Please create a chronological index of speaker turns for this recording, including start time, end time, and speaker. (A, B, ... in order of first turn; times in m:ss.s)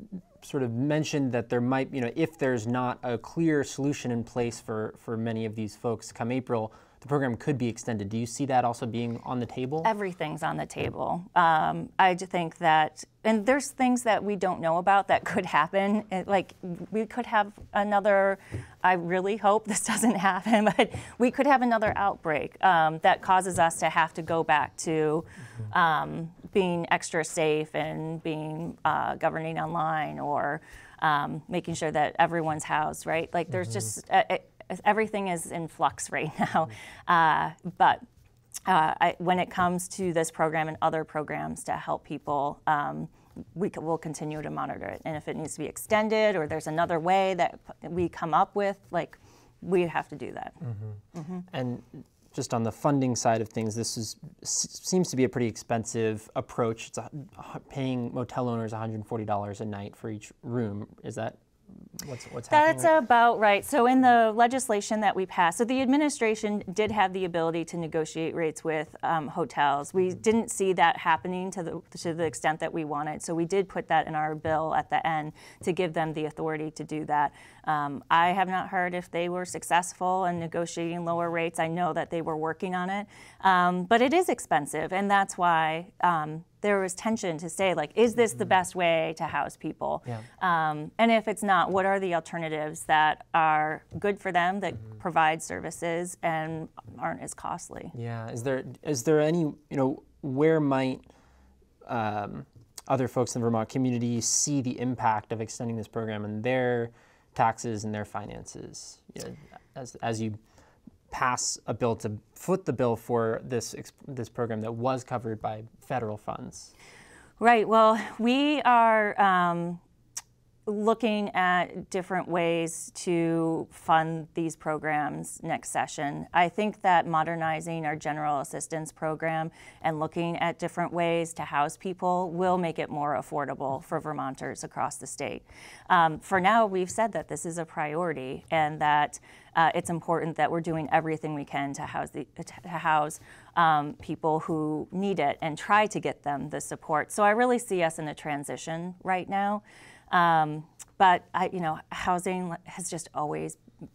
0:00.4-0:09.9 A
0:09.8-0:38.0 B
0:38.6-0:50.6 B
0:50.6-1:01.4 A
0:51.1-0:51.5 B
1:02.0-1:03.0 A
1:02.5-1:37.9 B
1:37.9-1:41.0 A
1:41.9-1:50.4 A
1:51.1-1:56.7 A
1:57.4-1:59.8 B
2:00.7-2:33.6 B